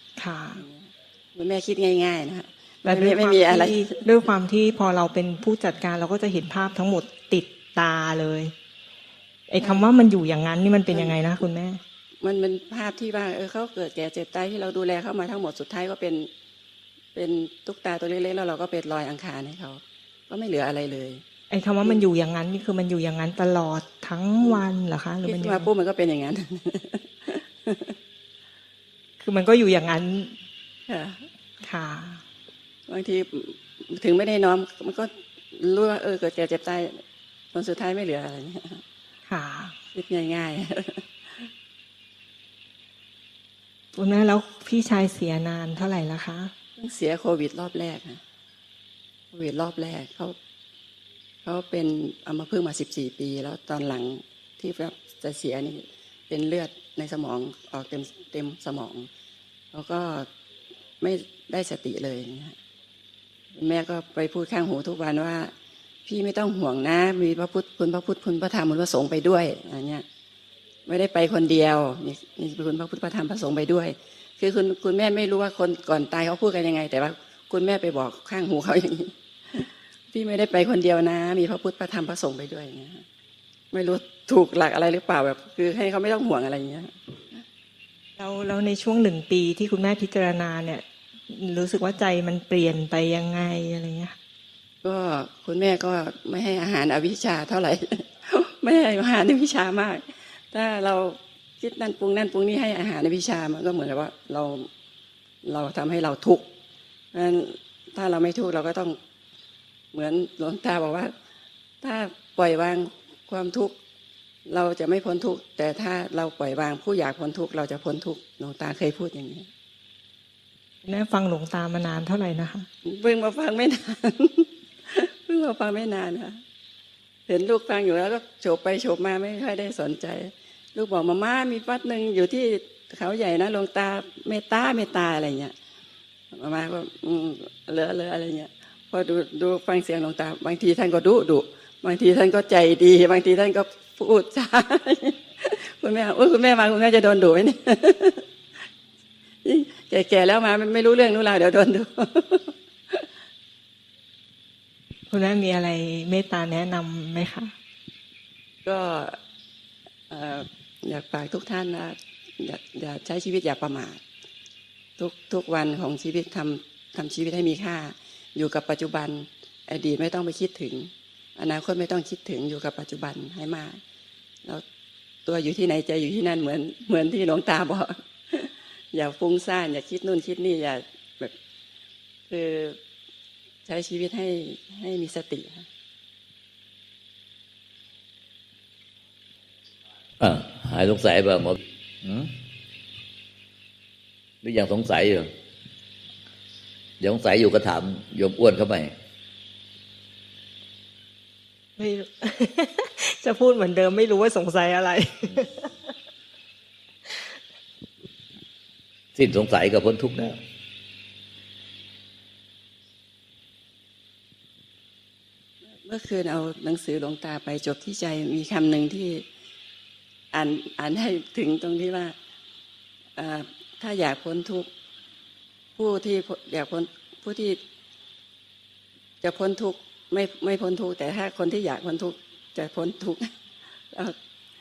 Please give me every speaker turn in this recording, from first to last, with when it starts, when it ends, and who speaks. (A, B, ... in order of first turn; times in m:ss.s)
0:00.2-0:00.6 A
0:00.5-0:04.0 B
0:02.8-0:08.5 A
0:09.5-0:11.8 A
0:09.6-0:09.8 B
0:10.9-0:11.2 B
0:12.2-0:16.3 B
0:17.1-0:21.2 B
0:21.5-0:25.7 A
0:25.2-0:27.9 B
0:29.2-0:30.4 A
0:30.9-0:31.3 B
0:31.6-0:32.2 A
0:32.9-0:37.0 B
0:37.5-0:38.8 B
0:39.3-0:39.7 A
0:39.9-0:41.5 B
0:43.9-0:46.5 A
0:46.8-0:48.2 B
0:49.3-0:50.4 B
0:51.4-0:59.1 B
0:59.7-1:00.3 B
1:01.0-1:02.6 B
1:03.5-1:05.5 B
1:06.0-1:10.0 B
1:10.9-1:23.0 B
1:23.7-1:27.4 B
1:28.2-1:34.2 A
1:34.8-1:44.7 B
1:45.4-1:46.5 B
1:47.1-1:49.0 B
1:49.9-1:51.1 B
1:51.8-1:53.7 B
1:54.5-1:59.5 B
2:00.8-2:02.7 A
2:02.8-2:06.4 B
2:07.3-2:15.5 B
2:16.3-2:28.2 B
2:29.4-2:33.0 B
2:35.1-2:37.5 A
2:38.6-2:39.2 B
2:40.1-2:44.0 B
2:45.0-2:53.8 B
2:55.2-3:01.3 B
3:02.3-3:02.8 B
3:03.6-3:05.6 B
3:10.2-3:12.3 C
3:14.4-3:15.3 C
3:17.0-3:18.9 C
3:21.8-3:25.7 A
3:27.1-3:27.3 A
3:29.1-3:30.4 C
3:35.8-3:39.2 B
3:40.3-3:42.1 B
3:43.2-3:44.7 B
3:45.8-3:47.6 B
3:49.2-3:53.3 B